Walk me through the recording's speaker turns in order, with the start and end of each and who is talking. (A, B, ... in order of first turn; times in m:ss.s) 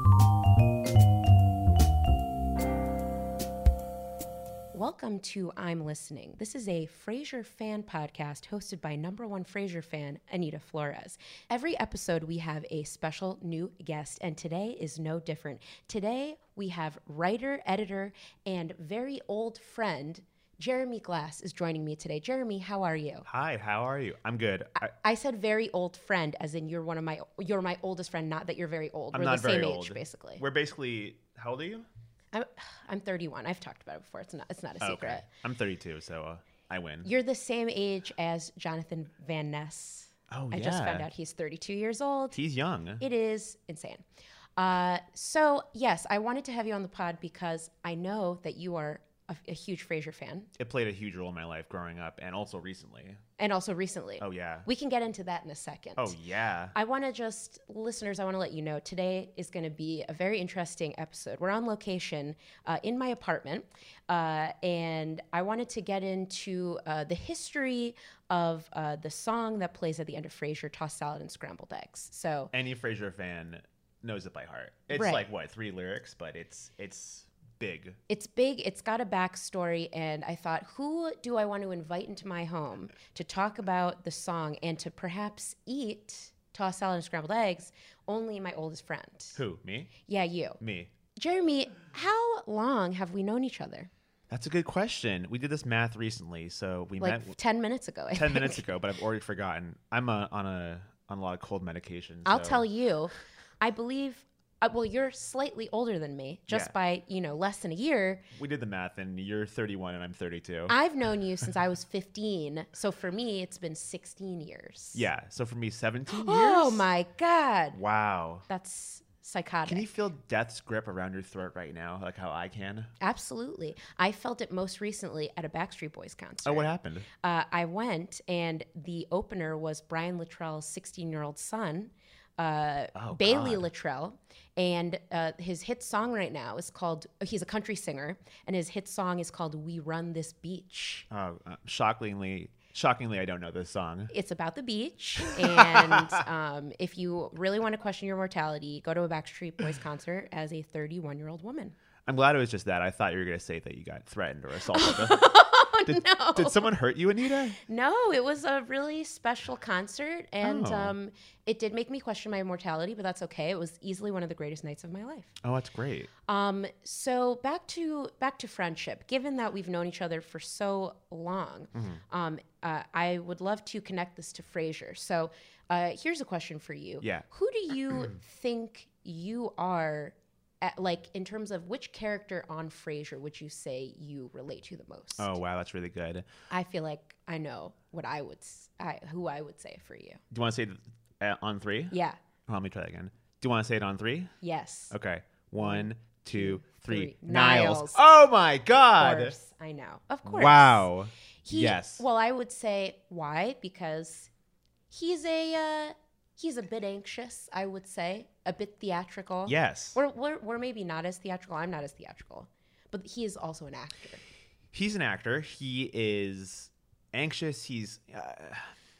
0:04.7-0:23.3 A
0:23.2-0:24.9 B
0:24.8-0:30.4 A
0:29.1-0:31.9 B
0:32.3-0:35.3 A
0:34.8-0:37.1 B
0:37.0-0:42.4 A
0:40.3-0:41.1 B
0:42.3-0:43.0 B
0:43.0-0:44.0 A
0:44.6-0:50.5 A
0:50.6-0:53.2 B
0:53.4-0:56.2 A
0:54.2-0:54.7 B
0:56.0-0:56.7 B
0:56.7-1:12.5 A
1:12.5-1:18.0 B
1:14.9-1:15.2 A
1:18.1-1:29.4 A
1:29.3-1:29.9 B
1:30.0-1:30.6 A
1:30.6-1:30.9 B
1:31.2-1:33.9 A
1:34.3-1:37.4 B
1:37.0-1:38.6 A
1:38.1-1:42.6 B
1:42.2-1:48.2 A
1:48.4-1:50.8 B
1:50.7-1:55.1 A
1:54.9-1:56.9 B
1:56.1-1:57.8 A
1:57.7-1:58.5 B
1:58.5-1:59.9 A
1:59.6-2:02.9 B
2:03.0-2:21.0 A
2:06.4-2:07.0 B
2:12.9-2:13.7 B
2:21.1-2:24.1 B
2:24.1-2:31.8 A
2:25.4-2:26.1 B
2:32.1-2:35.2 B
2:34.7-2:36.7 A
2:35.9-2:37.6 B
2:37.6-2:45.3 A
2:40.4-2:40.9 B
2:45.4-2:46.1 B
2:46.2-3:05.4 A
2:51.7-2:52.0 B
3:05.2-3:06.2 B
3:06.5-3:10.2 A
3:10.3-3:11.9 B
3:11.9-3:12.2 A
3:12.5-3:14.3 B
3:14.4-3:14.9 A
3:14.9-3:19.3 B
3:15.6-3:18.0 A
3:19.0-3:20.9 A
3:20.2-3:22.0 B
3:21.4-3:24.3 A
3:24.9-3:34.2 A
3:29.4-3:30.0 B
3:34.7-3:38.7 B